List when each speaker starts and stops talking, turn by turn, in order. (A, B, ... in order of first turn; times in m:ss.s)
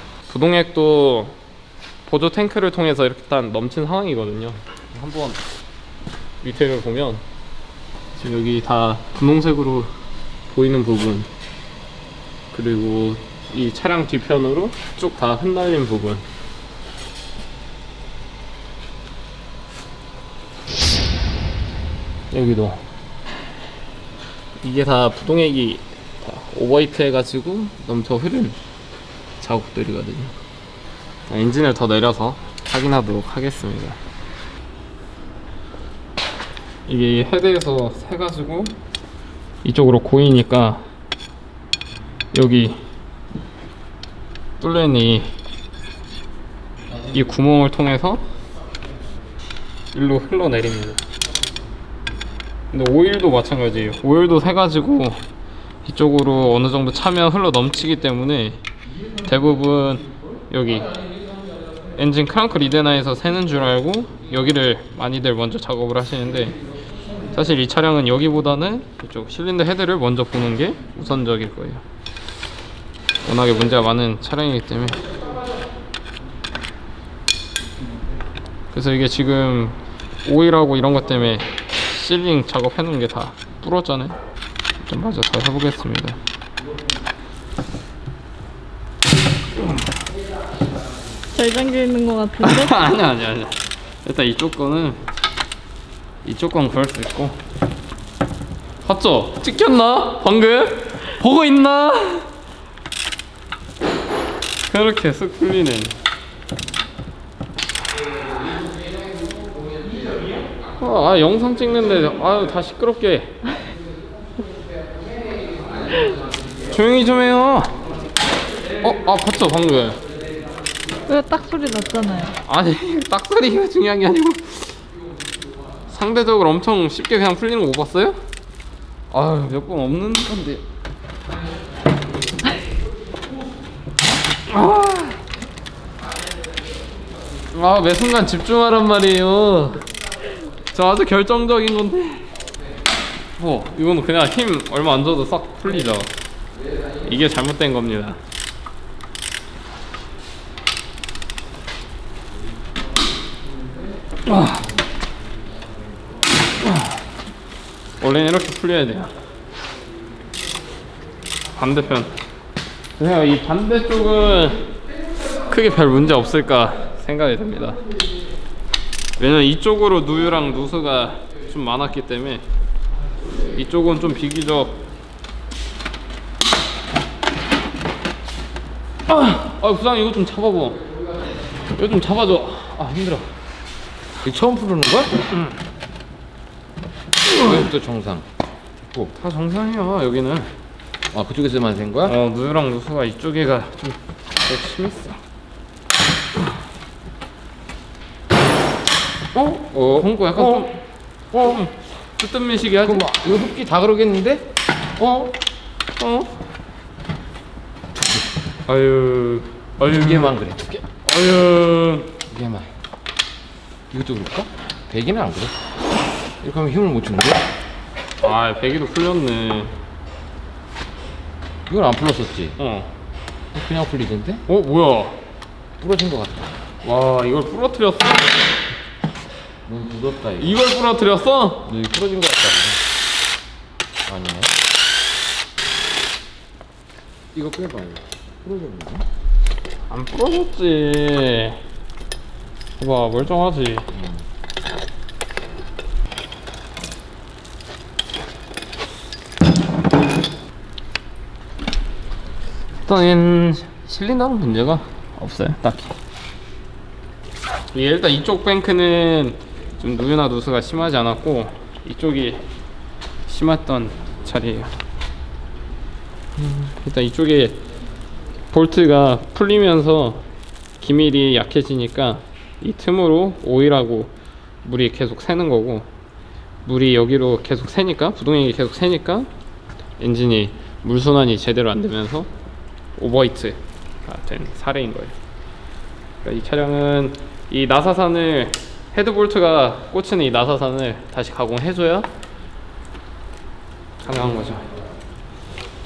0:00.3-0:01.4 A
0:02.0-0:05.4 A
0:06.4-0:07.2 A
0:08.2-0:09.9 A
0:10.5-0:11.3 A
0:12.5-0:16.2 A
0:22.3-0:22.8 A
0:24.6-0:28.6 A
0:29.4-0:30.3 A
0:31.3-0:34.0 A
0:36.9-0:38.7 A
0:39.6-0:40.8 A
0:42.3-0:42.8 A
0:44.6-0:45.3 A
0:47.1-0:48.2 A
0:49.9-0:51.0 A
0:52.7-0:55.2 A
0:55.8-0:58.6 A
0:59.2-1:00.9 A
1:01.9-1:06.6 A
1:07.3-1:11.8 A
1:13.2-1:15.1 A
1:18.7-1:24.2 A
1:24.8-1:26.2 A
1:31.3-1:32.8 B
1:32.4-1:35.0 A
1:36.2-1:37.4 A
1:38.8-1:42.3 A
1:44.7-1:46.0 A
1:50.7-1:53.4 A
1:56.6-1:57.7 A
1:58.8-2:00.0 A
2:01.1-2:02.3 B
2:02.4-2:04.8 A
2:05.9-2:08.2 A
2:09.1-2:10.6 A
2:14.5-2:15.2 A
2:17.5-2:19.9 A
2:20.6-2:22.3 A
2:23.4-2:26.1 A
2:27.0-2:28.2 A
2:34.3-2:34.6 A
2:36.6-2:36.9 A
2:38.0-2:39.1 A
2:41.6-2:42.1 A
2:43.0-2:44.6 A
2:45.5-2:47.8 A
2:49.2-2:52.4 A
2:53.5-2:54.8 A
2:59.1-3:00.8 A
3:01.7-3:03.3 A
3:04.2-3:05.2 C
3:07.3-3:07.6 A
3:07.3-3:08.2 C
3:09.1-3:10.5 A
3:11.1-3:12.1 C
3:12.0-3:15.2 A
3:19.3-3:20.8 A
3:20.4-3:20.7 C
3:21.3-3:21.6 C
3:21.3-3:23.0 A
3:22.8-3:24.5 C
3:25.0-3:25.3 C
3:26.0-3:26.3 A
3:28.7-3:30.4 A
3:29.8-3:30.7 C
3:30.9-3:32.2 A
3:32.3-3:32.7 C
3:33.9-3:35.5 C
3:36.4-3:37.4 C
3:38.2-3:39.7 A
3:41.7-3:42.6 C
3:42.6-3:42.9 A
3:43.5-3:44.4 C
3:44.5-3:45.2 A
3:45.8-3:46.5 C
3:46.8-3:48.3 A
3:49.6-3:50.5 C
3:50.4-3:51.7 A
3:51.7-3:52.8 C
3:54.0-3:54.5 C
3:57.3-3:59.0 C
3:59.9-4:01.6 A
4:02.8-4:03.9 A
4:03.9-4:04.2 C
4:12.8-4:16.0 A
4:17.7-4:22.4 A
4:23.3-4:24.7 A
4:26.4-4:27.6 A
4:28.5-4:30.2 A
4:30.8-4:35.9 A
4:36.6-4:39.3 A
4:40.0-4:42.3 A
4:43.0-4:45.1 A
4:46.2-4:52.1 A
4:54.0-4:54.6 A